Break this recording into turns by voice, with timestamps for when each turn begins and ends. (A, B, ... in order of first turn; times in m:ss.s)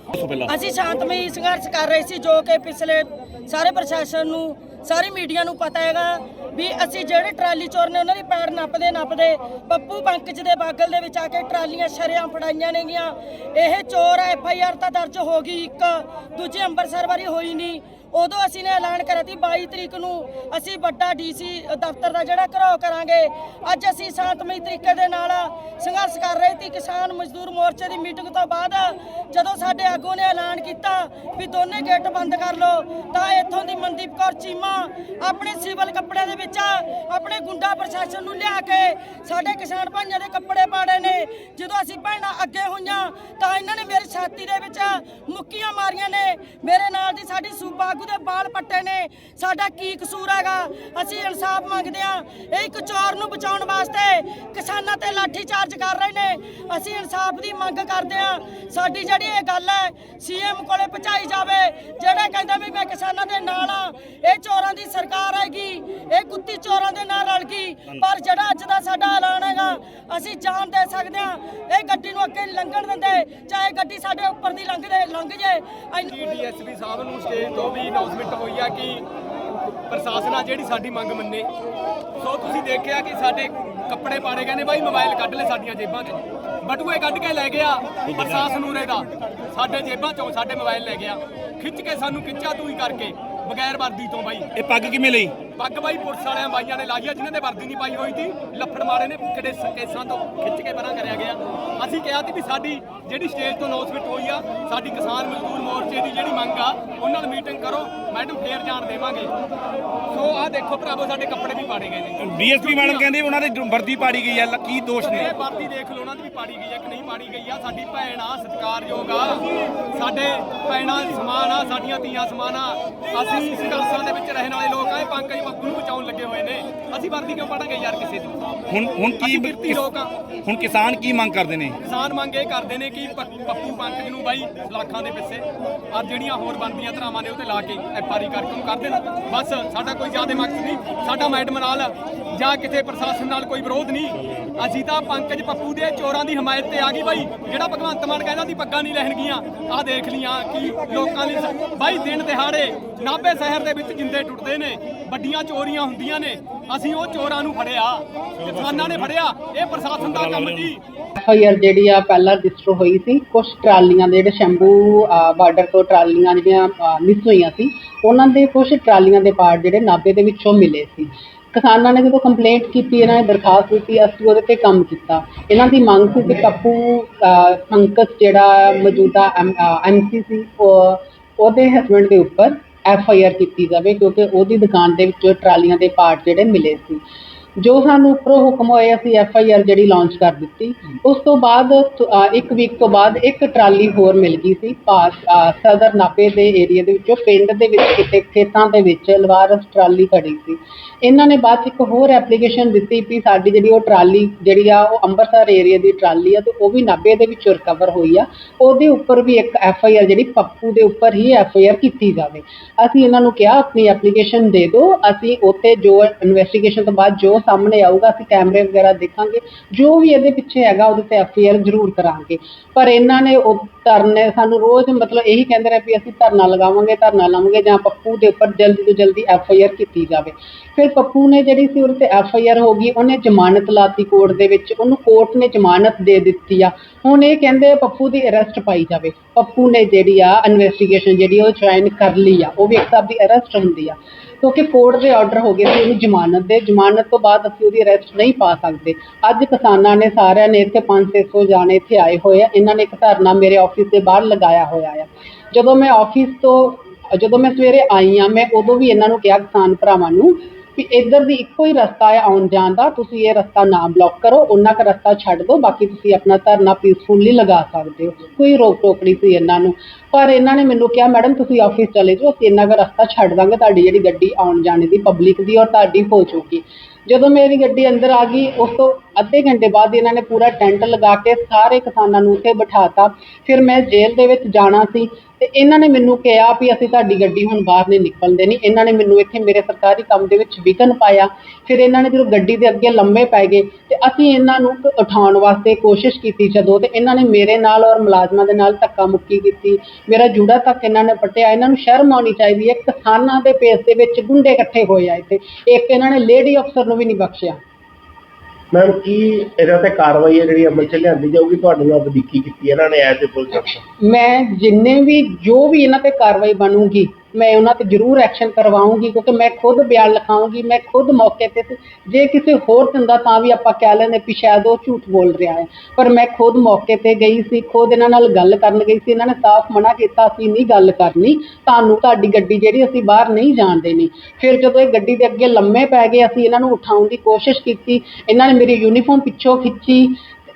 0:00.1-0:00.5 A
0:00.5-1:16.1 B
1:16.1-1:19.0 C
1:19.9-1:21.5 C
1:22.2-1:34.5 C
1:28.0-1:28.5 A
1:34.6-1:35.3 A
1:35.6-1:49.3 C
1:50.1-1:53.1 C
1:52.2-1:55.3 A
1:55.0-2:08.4 C
2:08.7-2:09.8 A
2:09.2-2:10.1 C
2:10.4-2:11.8 A
2:11.8-2:40.8 C
2:41.2-3:07.0 D
3:07.6-5:07.6 D
5:08.7-5:13.8 E
5:14.0-5:40.2 D